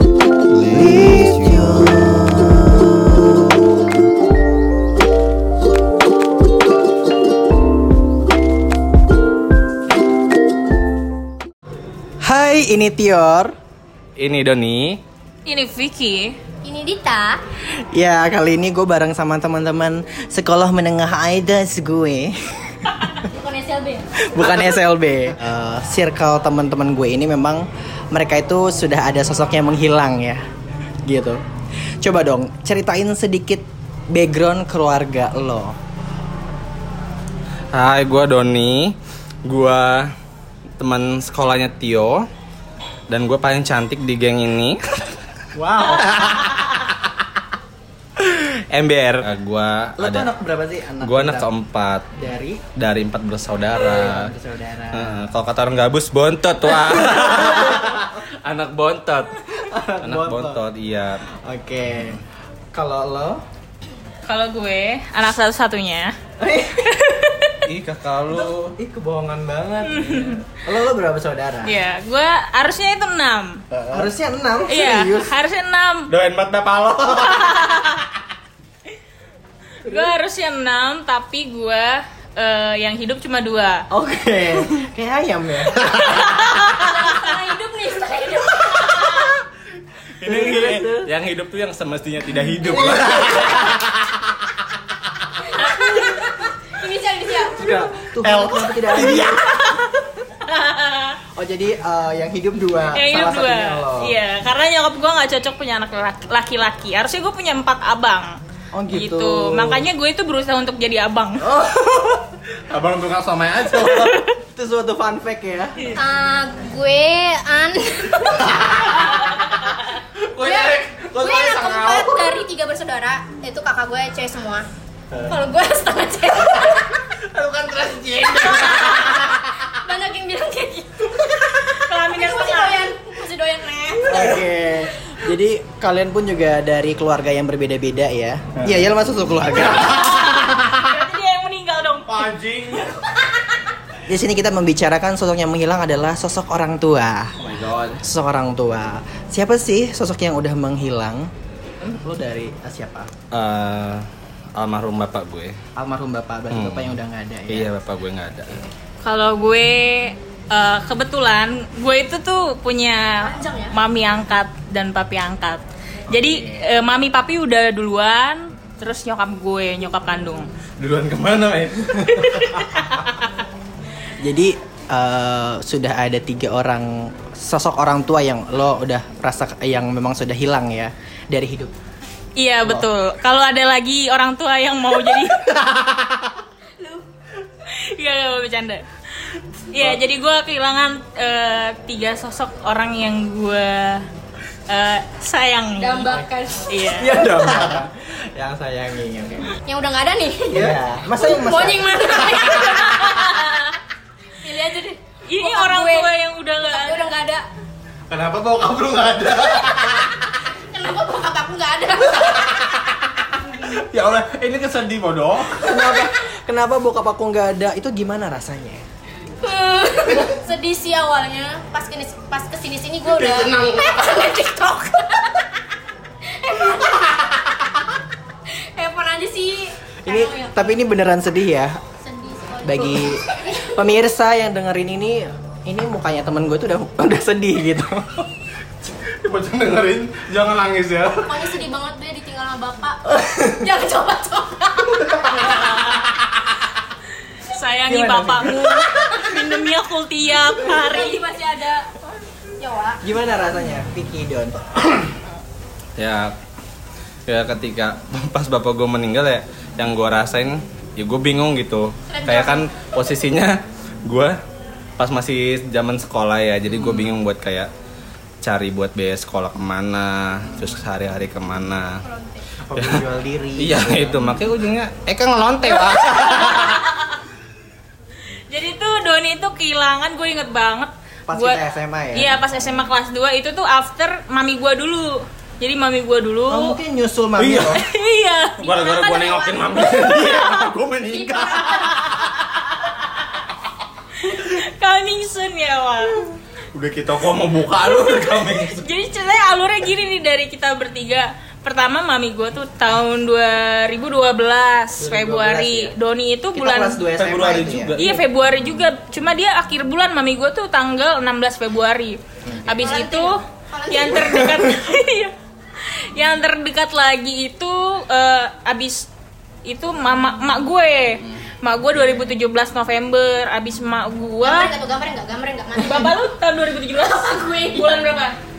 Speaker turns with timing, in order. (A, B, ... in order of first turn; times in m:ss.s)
0:00.5-0:02.9 A
0:00.6-0:02.0 B
0:12.2-0:13.6 A
0:14.2-0:15.0 B
0:15.4-0:16.4 C
0:16.6-0:17.4 D
0:17.7-0:23.1 A
0:23.2-0:24.1 D
0:24.2-0:30.4 A
0:31.0-0:31.4 A
0:32.0-0:35.8 A
0:37.7-0:40.1 B
0:40.8-0:42.3 B
0:43.1-0:45.2 B
0:45.5-0:46.4 A
0:45.9-0:46.7 B
0:48.2-0:50.3 B
0:50.0-0:51.5 A
0:51.0-0:52.1 B
0:52.1-0:52.6 A
0:52.7-0:54.3 B
0:53.8-0:55.2 A
0:54.9-1:01.2 B
0:56.9-0:58.0 A
0:59.6-1:00.6 A
1:01.4-1:02.2 A
1:02.7-1:03.4 A
1:04.3-1:06.2 C
1:06.4-1:06.9 A
1:06.9-1:07.6 C
1:07.6-1:08.8 B
1:08.3-1:11.8 A
1:09.8-1:10.4 C
1:11.6-1:13.6 C
1:13.8-1:15.3 A
1:14.7-1:16.1 C
1:16.1-1:17.9 B
1:17.2-1:18.0 C
1:19.8-1:23.8 C
1:23.9-1:26.4 A
1:25.9-1:26.8 C
1:26.6-1:29.3 D
1:30.2-1:34.4 B
1:30.2-1:31.1 A
1:32.6-1:33.8 A
1:35.4-1:38.7 D
1:35.6-1:36.0 C
1:37.5-1:39.5 A
1:38.2-1:39.9 B
1:40.4-1:41.2 C
1:41.2-1:44.2 A
1:42.9-1:48.4 C
1:48.7-1:49.8 A
1:48.9-1:51.5 C
1:51.5-1:52.1 A
1:51.6-1:54.2 B
1:53.9-1:54.3 C
1:54.5-1:56.0 A
1:55.9-1:59.4 D
1:58.4-1:59.0 B
2:00.3-2:02.4 B
2:00.4-2:04.7 D
2:05.1-2:05.4 B
2:05.2-2:07.0 D
2:07.2-2:09.4 B
2:08.3-2:15.2 D
2:11.7-2:12.9 C
2:14.1-2:20.2 A
2:19.7-2:22.3 C
2:20.1-2:20.7 B
2:22.0-2:23.0 B
2:24.0-2:27.4 A
2:27.4-2:28.0 B
2:28.0-2:33.1 A
2:33.3-2:35.6 B
2:35.8-2:37.7 A
2:36.5-2:38.6 B
2:39.0-2:50.5 C
2:43.2-2:43.7 D
2:46.1-2:46.7 A
2:50.8-2:53.0 B
2:52.3-2:53.3 C
2:54.2-3:01.7 A
3:02.4-3:05.5 C
3:06.8-3:07.1 D
3:07.6-3:14.1 C
3:14.7-3:17.3 C
3:15.8-3:17.6 D
3:16.9-3:19.5 A
3:19.6-3:23.7 D
3:20.5-3:22.4 A
3:22.6-3:23.8 C
3:24.4-3:27.4 D
3:25.2-3:27.2 C
3:28.1-3:30.2 B
3:30.5-3:33.7 D
3:32.3-3:32.8 B
3:33.6-3:36.0 B
3:35.6-3:38.8 A
3:39.4-3:45.5 D
3:43.0-3:44.0 B
3:46.2-3:47.8 D
3:48.5-3:50.8 D
3:50.0-3:51.8 A
3:52.0-3:53.8 D
3:52.6-3:58.3 A
3:58.8-4:01.6 B
4:01.2-4:05.9 D
4:05.5-4:06.0 C
4:07.3-4:11.2 C
4:07.9-4:08.9 A
4:09.0-4:09.4 D
4:10.5-4:12.0 D
4:12.6-4:13.0 D
4:13.0-4:14.8 A
4:16.0-4:16.4 B
4:17.2-4:24.4 B
4:22.1-4:22.6 D
4:25.0-4:27.7 B
4:26.7-4:27.1 A
4:28.4-4:32.0 B
4:30.5-4:30.8 A
4:32.0-4:32.5 D
4:32.6-4:34.4 A
4:32.8-4:33.0 B
4:33.6-4:36.9 B
4:36.0-4:37.1 C
4:38.5-4:41.6 C
4:41.3-4:42.8 A
4:42.1-4:46.8 C
4:46.5-4:47.8 A
4:47.4-4:47.8 B
4:47.7-4:49.5 C
4:48.6-4:52.1 B
4:48.6-4:52.2 D
4:54.2-4:56.3 C
4:56.7-4:58.8 B
4:58.0-5:07.0 C
5:05.0-5:05.9 A
5:06.5-5:08.0 A
5:07.2-5:08.2 B
5:08.0-5:19.1 C
5:12.4-5:13.0 A
5:12.8-5:14.6 D
5:19.6-5:24.7 C
5:24.4-5:26.2 D
5:25.7-5:28.4 C
5:26.9-5:28.0 D